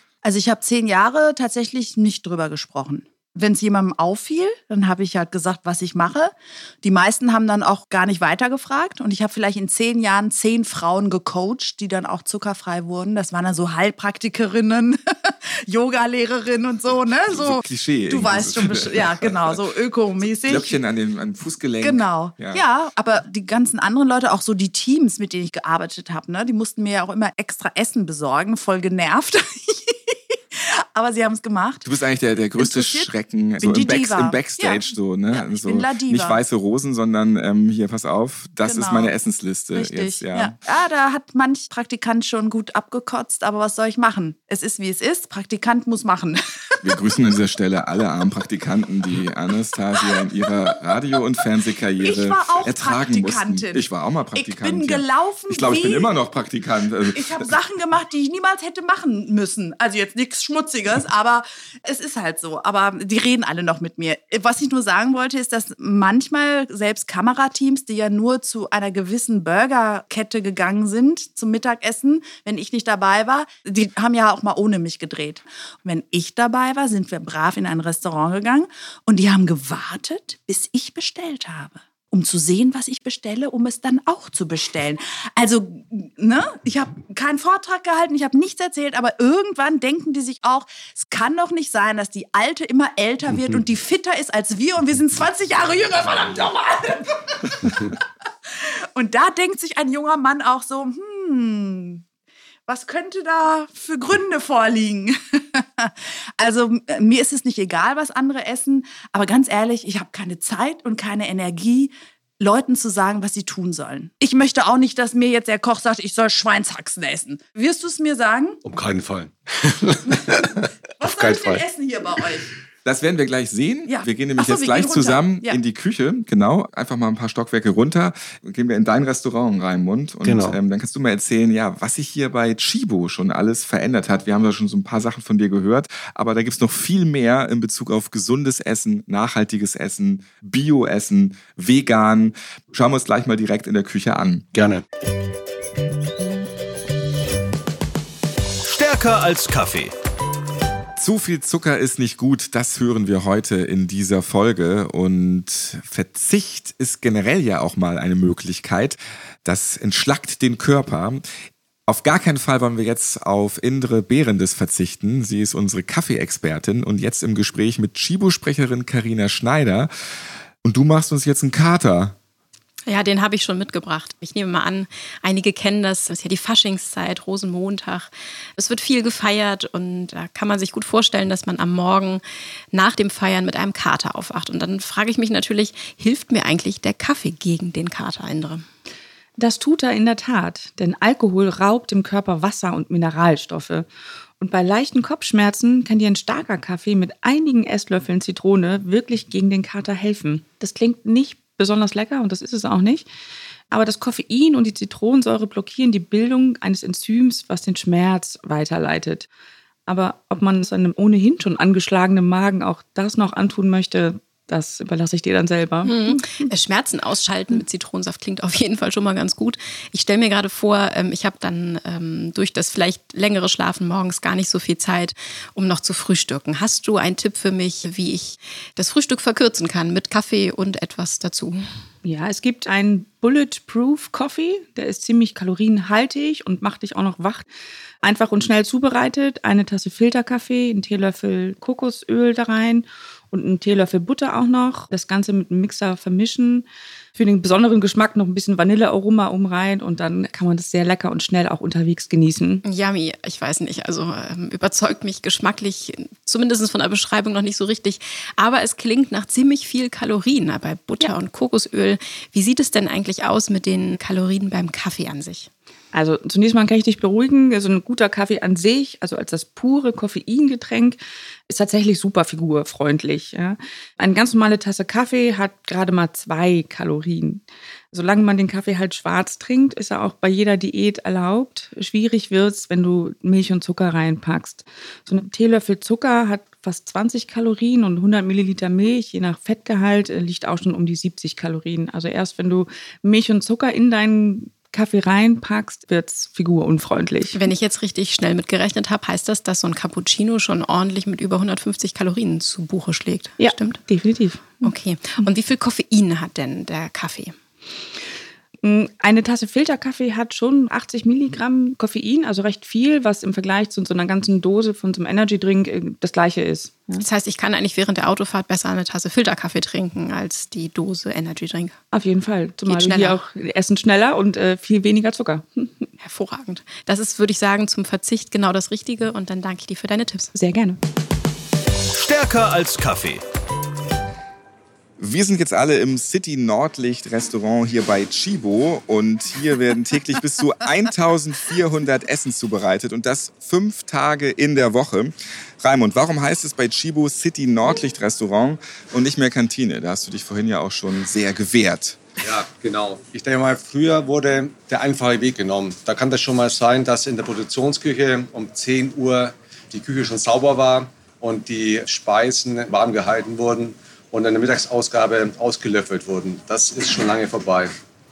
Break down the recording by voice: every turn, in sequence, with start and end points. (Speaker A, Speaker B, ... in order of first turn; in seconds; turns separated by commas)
Speaker A: 0.2-20.8, Speaker B: 17.3-19.6, Speaker B: 20.4-22.6, Speaker A: 21.8-31.9, Speaker B: 31.9-40.6, Speaker A: 32.6-36.4, Speaker A: 38.6-39.2, Speaker A: 39.7-46.9, Speaker B: 46.8-57.5, Speaker A: 50.0-50.9, Speaker A: 52.0-56.1, Speaker A: 57.1-98.0, Speaker A: 98.6-102.0, Speaker A: 102.7-118.6, Speaker C: 118.7-121.6, Speaker A: 121.0-122.5, Speaker B: 122.8-144.5, Speaker A: 123.9-125.6, Speaker C: 130.2-130.6, Speaker C: 144.5-144.8, Speaker D: 148.6-149.9, Speaker B: 151.0-161.2, Speaker B: 161.9-169.9, Speaker B: 170.6-172.2, Speaker E: 172.9-188.6, Speaker F: 189.4-193.9, Speaker F: 194.4-203.1, Speaker F: 203.7-209.3, Speaker F: 209.9-216.5, Speaker E: 215.8-231.6, Speaker F: 232.0-237.5, Speaker F: 238.0-252.6, Speaker E: 252.6-265.5, Speaker F: 265.9-297.4, Speaker E: 297.3-303.8, Speaker F: 303.4-304.7, Speaker E: 304.6-307.4, Speaker F: 308.6-317.0, Speaker E: 317.0-321.8, Speaker F: 321.9-325.9, Speaker E: 322.7-323.2, Speaker E: 326.0-330.3, Speaker F: 330.3-330.8, Speaker D: 331.9-333.2, Speaker B: 335.0-352.0, Speaker C: 352.2-367.8